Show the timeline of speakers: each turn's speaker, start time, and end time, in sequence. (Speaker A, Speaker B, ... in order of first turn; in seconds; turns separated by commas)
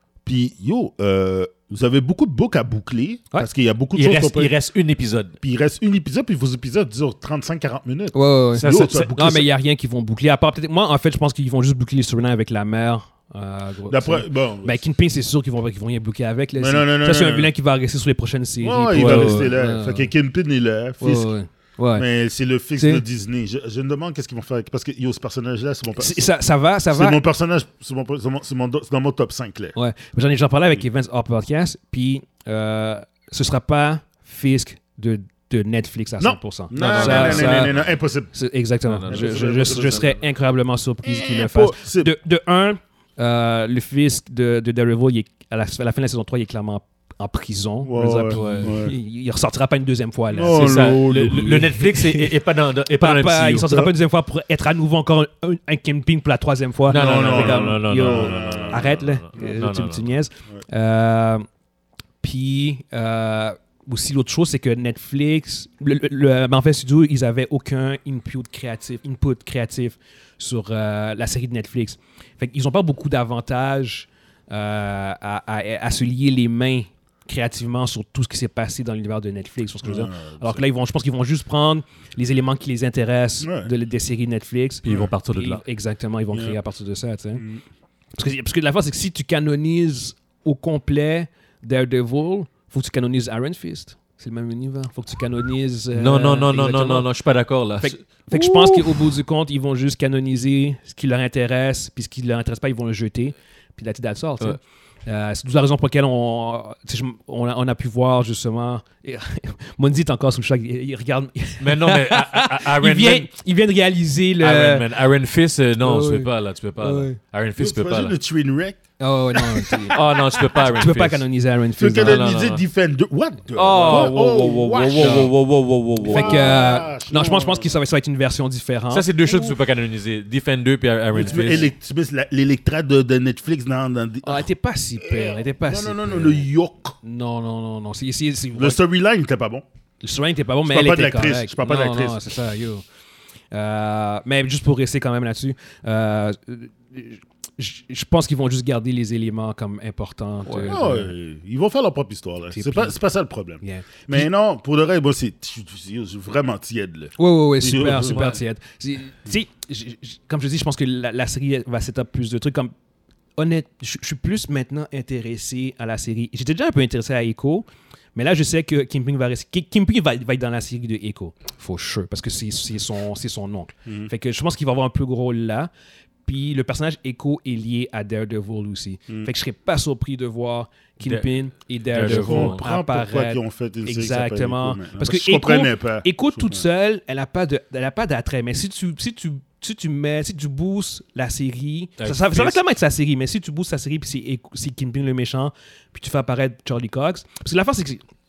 Speaker A: 0.2-4.5, Speaker B: 3.9-5.3, Speaker A: 5.4-9.5, Speaker C: 8.1-20.1, Speaker B: 8.5-9.1, Speaker A: 13.9-14.8, Speaker A: 16.6-17.5, Speaker A: 18.6-21.3, Speaker B: 18.9-19.5, Speaker C: 21.0-22.1, Speaker A: 21.9-26.2, Speaker C: 22.8-23.0, Speaker C: 26.0-27.2, Speaker A: 26.9-29.8, Speaker C: 29.7-37.7, Speaker A: 36.2-38.3, Speaker B: 36.7-38.0, Speaker C: 38.3-52.3, Speaker B: 38.9-39.3, Speaker A: 39.1-40.2, Speaker A: 41.0-42.1, Speaker A: 47.8-48.9, Speaker B: 48.3-48.7, Speaker A: 50.3-51.7, Speaker B: 50.5-53.7, Speaker C: 52.9-61.5, Speaker B: 56.9-60.1, Speaker A: 56.9-59.5, Speaker C: 62.2-87.4, Speaker A: 79.8-80.6, Speaker A: 83.4-83.7, Speaker B: 84.8-85.6, Speaker A: 84.8-85.1, Speaker A: 87.4-87.6, Speaker C: 88.2-97.1, Speaker B: 95.9-99.1, Speaker C: 97.8-114.9, Speaker B: 111.6-113.3, Speaker B: 114.4-118.2, Speaker C: 115.8-117.2, Speaker A: 117.6-118.8, Speaker C: 119.0-120.0, Speaker B: 119.9-121.2, Speaker C: 120.6-122.3, Speaker A: 121.8-125.3, Speaker B: 122.0-122.6, Speaker B: 123.5-126.6, Speaker C: 125.0-125.3, Speaker A: 126.0-127.8, Speaker C: 126.0-129.1, Speaker B: 128.9-131.7, Speaker A: 131.1-134.5, Speaker C: 131.2-131.6, Speaker C: 134.2-136.5, Speaker A: 135.0-136.9, Speaker C: 137.0-138.8, Speaker A: 138.5-139.6, Speaker C: 140.0-142.8, Speaker A: 140.7-142.2, Speaker C: 143.5-151.1, Speaker B: 150.4-150.8, Speaker A: 150.7-158.2, Speaker C: 152.5-153.0, Speaker C: 153.6-154.3, Speaker C: 157.2-162.7, Speaker B: 157.9-158.4, Speaker C: 163.3-175.7, Speaker C: 176.2-198.0, Speaker B: 181.0-181.3, Speaker B: 181.9-182.7, Speaker A: 182.0-186.6, Speaker B: 192.0-192.6